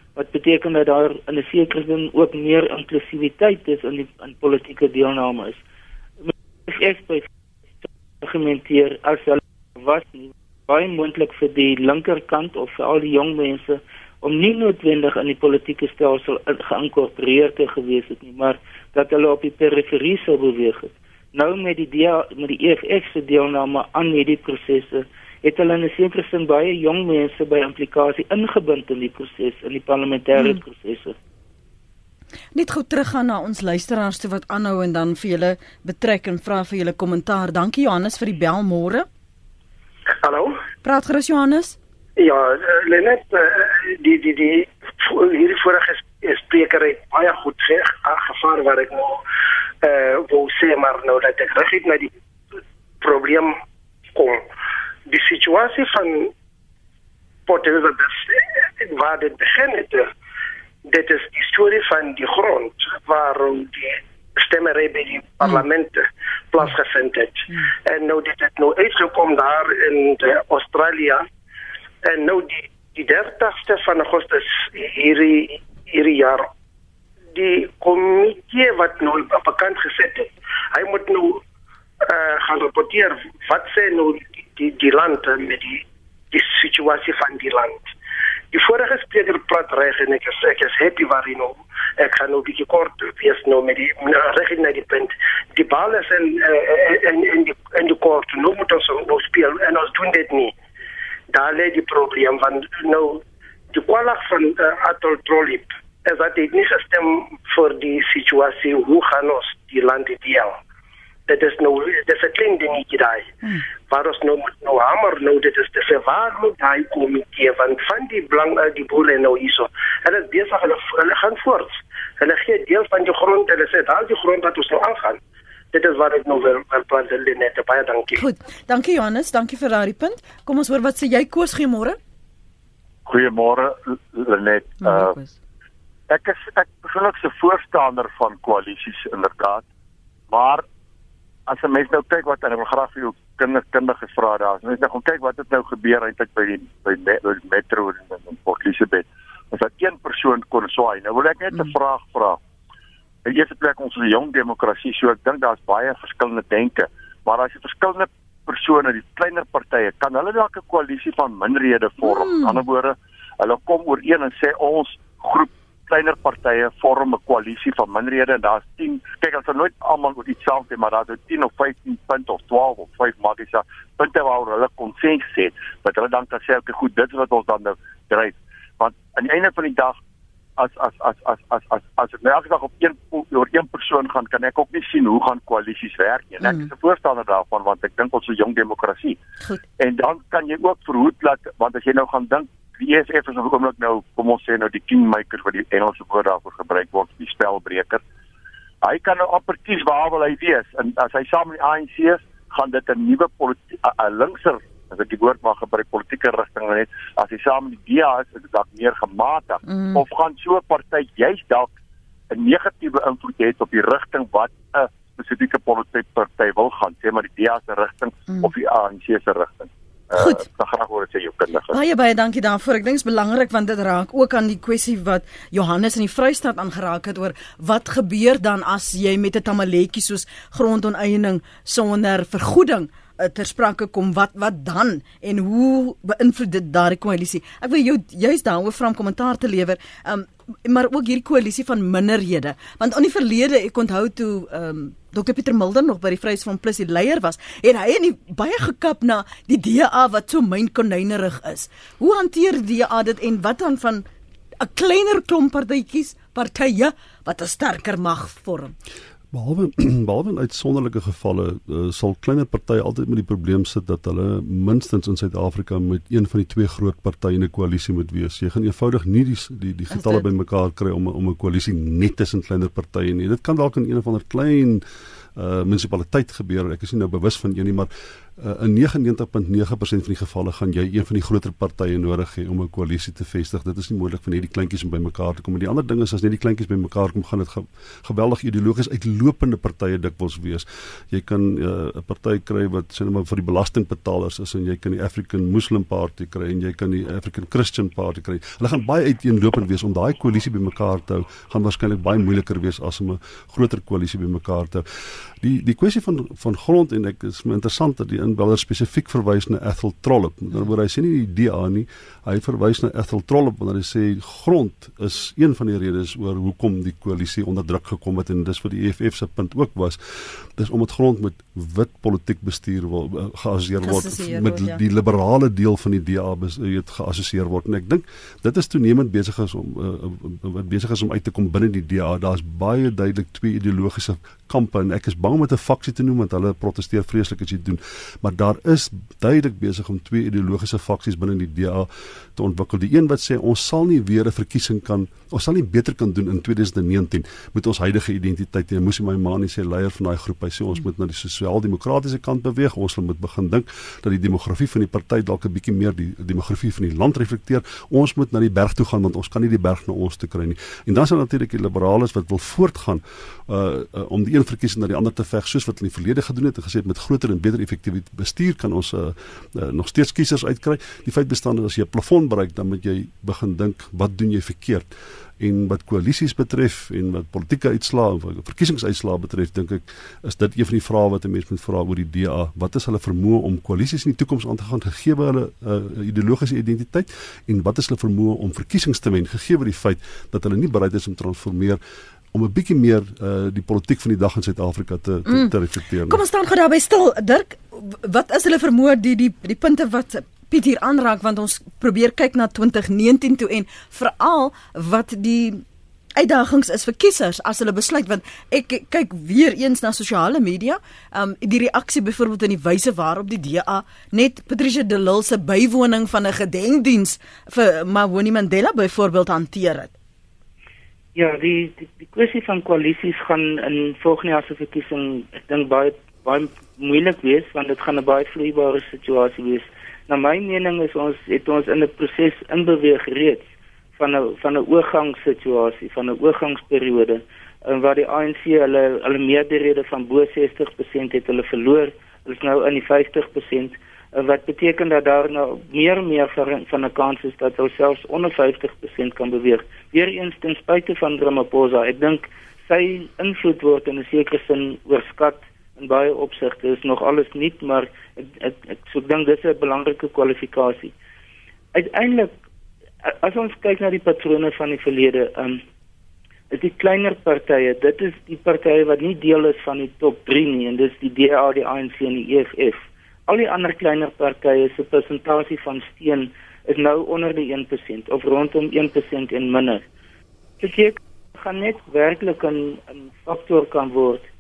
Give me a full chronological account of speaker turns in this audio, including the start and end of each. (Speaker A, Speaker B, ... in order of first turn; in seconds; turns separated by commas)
Speaker A: 0.2-5.6, Speaker A: 6.2-7.3, Speaker A: 8.2-31.2, Speaker B: 32.5-39.1, Speaker C: 40.2-40.5, Speaker B: 40.8-41.8, Speaker C: 42.2-49.2, Speaker C: 49.8-52.1, Speaker C: 53.0-53.5, Speaker C: 54.1-54.4, Speaker C: 55.1-56.3, Speaker C: 57.5-60.1, Speaker C: 60.9-71.2, Speaker C: 72.0-76.5, Speaker C: 77.3-81.4, Speaker C: 82.0-87.8, Speaker C: 88.5-100.5, Speaker C: 101.3-103.2, Speaker C: 103.7-110.5, Speaker C: 111.3-113.3, Speaker C: 113.9-125.2, Speaker C: 125.7-128.2, Speaker B: 128.2-132.0, Speaker D: 133.1-135.1, Speaker B: 134.8-135.4, Speaker D: 136.1-139.6, Speaker D: 140.3-140.6, Speaker D: 141.5-152.4, Speaker D: 153.2-180.0, Speaker B: 162.0-162.6, Speaker D: 180.6-189.2, Speaker D: 189.8-198.0, Speaker D: 198.8-211.7, Speaker B: 209.7-210.0, Speaker D: 212.3-221.8, Speaker B: 220.2-220.4, Speaker B: 221.7-254.1, Speaker B: 254.6-258.7, Speaker E: 259.3-274.8, Speaker B: 269.9-270.2, Speaker E: 275.4-304.9, Speaker E: 305.4-374.9, Speaker B: 323.8-324.8, Speaker E: 375.4-391.8, Speaker E: 392.3-396.2, Speaker B: 395.3-395.5, Speaker B: 396.1-405.6, Speaker B: 406.2-419.9, Speaker A: 421.2-433.5, Speaker A: 434.0-460.9, Speaker A: 461.7-462.3, Speaker A: 463.0-465.6, Speaker A: 466.5-479.9, Speaker A: 480.6-484.3